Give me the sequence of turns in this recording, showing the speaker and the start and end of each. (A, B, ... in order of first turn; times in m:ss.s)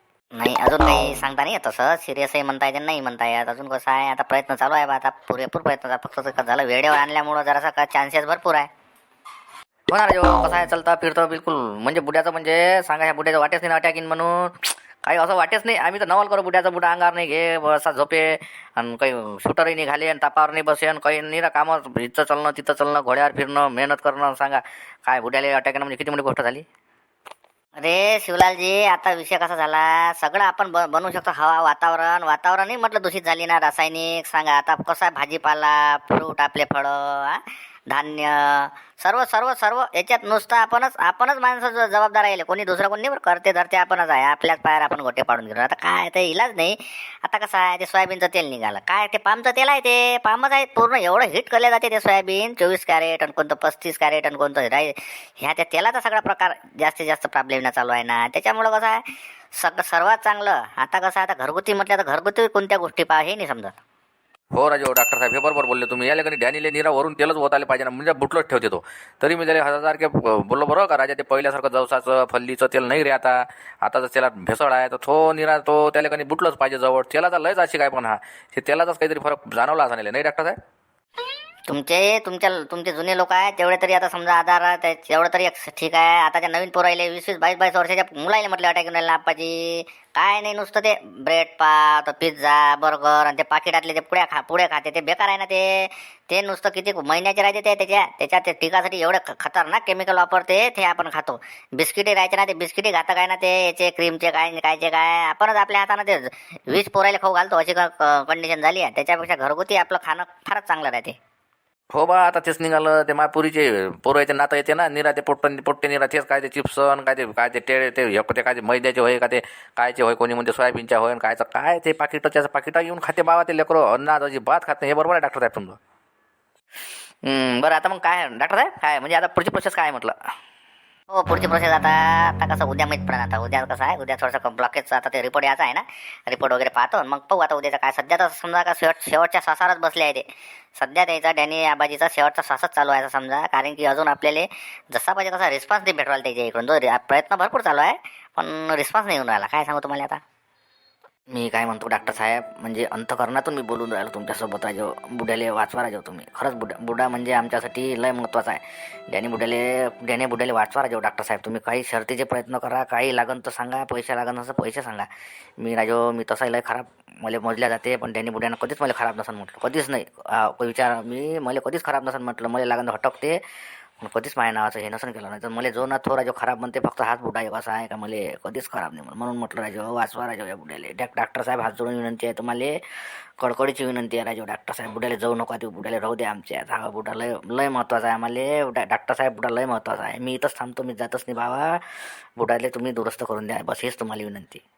0:00.3-0:08.7 A
0:09.9-0:26.6 B
0:27.8-0:37.4 A
0:37.9-0:59.0 A
0:59.6-1:03.7 A
1:04.6-1:20.5 C
1:21.7-1:51.2 A
1:51.9-2:05.8 C
2:07.2-2:10.1 B
2:11.1-2:20.2 A
2:20.8-2:30.2 A
2:31.3-2:45.1 B
2:45.6-2:53.4 B
2:54.0-3:02.8 B
3:03.4-3:11.8 B
3:12.4-3:14.6 B